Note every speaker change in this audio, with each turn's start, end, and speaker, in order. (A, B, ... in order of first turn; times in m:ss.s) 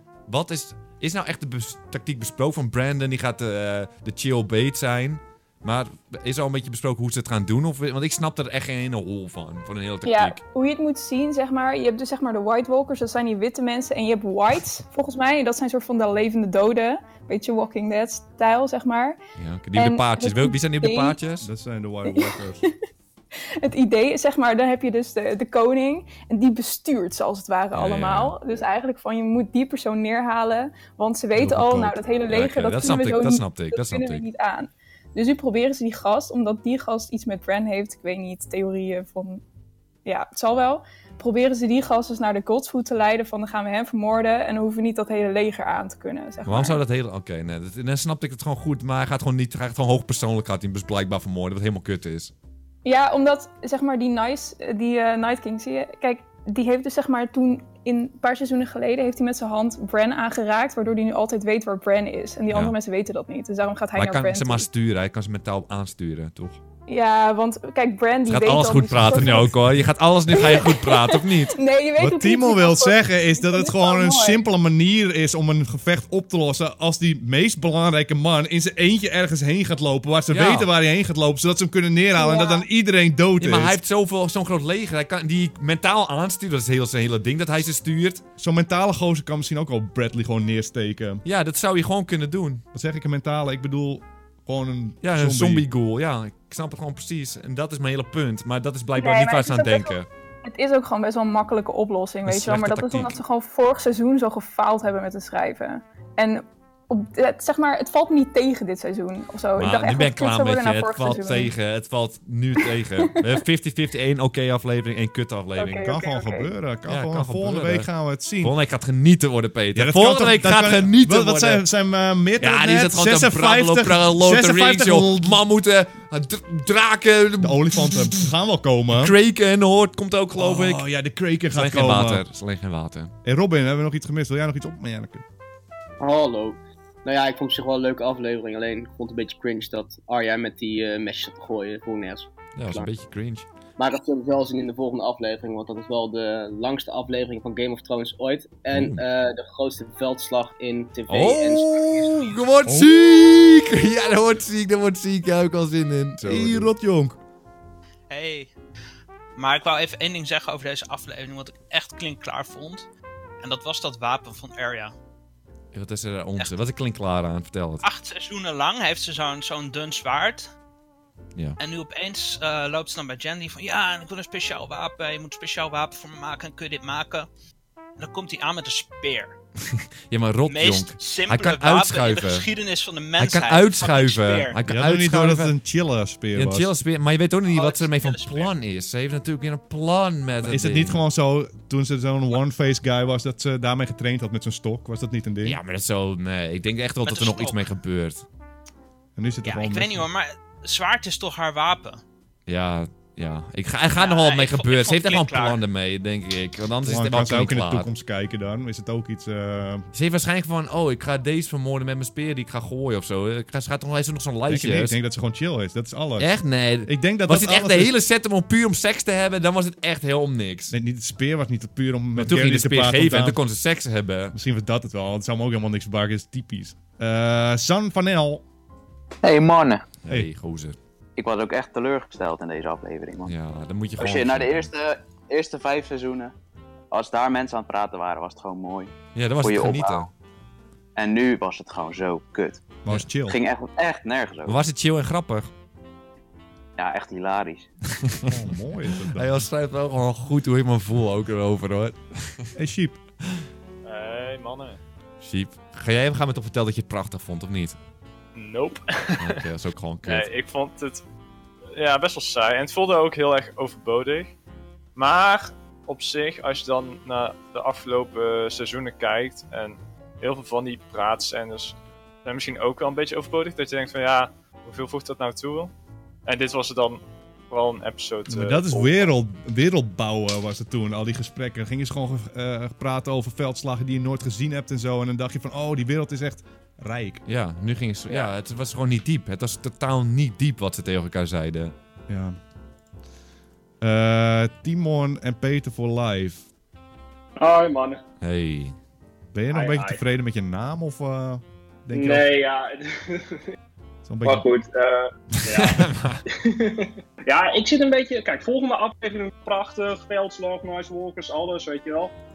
0:00.3-0:10.4 A
0:10.0-0:19.2 B
0:19.4-0:21.5 A
0:19.7-0:21.2 B
0:21.4-0:22.6 C
0:22.0-0:22.7 B
0:23.6-0:39.4 B
0:27.7-0:28.4 A
0:31.4-0:34.2 A
0:40.0-0:46.8 B
0:46.4-0:52.3 A
0:52.8-1:04.7 B
1:02.5-1:02.7 A
1:04.0-1:06.6 A
1:06.9-1:09.5 B
1:08.3-1:11.5 A
1:09.2-1:09.5 C
1:10.3-1:14.4 B
1:12.0-1:23.8 C
1:20.3-1:20.7 A
1:22.2-1:22.7 B
1:23.4-1:28.2 A
1:28.4-1:31.2 C
1:31.2-1:32.6 A
1:32.7-1:35.6 C
1:35.0-1:40.1 A
1:39.0-1:51.5 B
1:42.2-1:43.2 A
1:49.6-1:55.8 A
1:55.6-1:56.5 B
1:55.8-1:58.5 C
1:56.9-2:01.6 A
1:59.7-2:05.4 C
2:02.4-2:08.2 A
2:07.4-2:09.1 C
2:09.0-2:10.8 A
2:10.4-2:12.2 C
2:11.5-2:13.1 A
2:13.2-2:15.2 C
2:16.0-2:22.9 D
2:22.6-2:23.4 A
2:23.8-2:32.2 D
2:28.7-2:29.0 A
2:31.1-2:36.7 A
2:32.6-2:32.9 C
2:36.2-2:37.2 C
2:38.1-2:38.5 E
2:39.4-2:42.8 E
2:43.4-2:44.9 E
2:45.7-2:47.8 A
2:47.8-2:50.5 E
2:51.6-2:57.3 E
2:58.0-2:59.3 E
2:59.6-3:02.5 A
3:00.4-3:04.6 E
3:03.2-3:05.5 A
3:04.7-3:06.7 C
3:06.3-3:11.0 A
3:07.5-3:08.5 E
3:10.4-3:15.6 C
3:15.4-3:18.2 A
3:17.0-3:17.7 E
3:19.2-3:20.0 C
3:19.4-3:22.0 E
3:22.5-3:27.9 A
3:23.9-3:25.6 E
3:26.8-3:29.9 C
3:29.9-3:35.0 A
3:34.5-3:36.3 C
3:36.2-3:40.7 A
3:36.8-3:37.9 C
3:40.7-3:43.4 C
3:42.2-3:44.3 A
3:44.3-3:48.4 C
3:49.2-3:49.8 F
3:50.0-3:50.8 A
3:51.2-3:53.3 F
3:53.2-3:54.7 A
3:54.0-3:56.3 F
3:56.9-4:00.1 F
3:59.1-4:00.1 A
4:01.0-4:02.7 F
4:02.8-4:03.4 C
4:03.2-4:04.6 F
4:04.4-4:05.5 A
4:06.8-4:07.7 F
4:08.2-4:09.5 C
4:08.9-4:12.5 A
4:12.6-4:13.0 C
4:13.8-4:14.8 G
4:15.2-4:17.8 A
4:18.3-4:19.4 G
4:19.2-4:20.3 A
4:20.0-4:21.0 G
4:21.7-4:24.3 G
4:25.0-4:35.7 G
4:36.2-4:39.1 G
4:38.3-4:47.2 C
4:47.2-4:51.7 A
4:52.1-4:52.4 C
4:53.8-4:56.4 C
4:57.4-4:58.0 H
4:58.2-4:58.8 A
4:59.3-5:02.3 C
4:59.5-5:00.0 H
5:01.9-5:03.4 H
5:04.0-5:04.5 C
5:04.2-5:12.1 H
5:05.4-5:06.2 A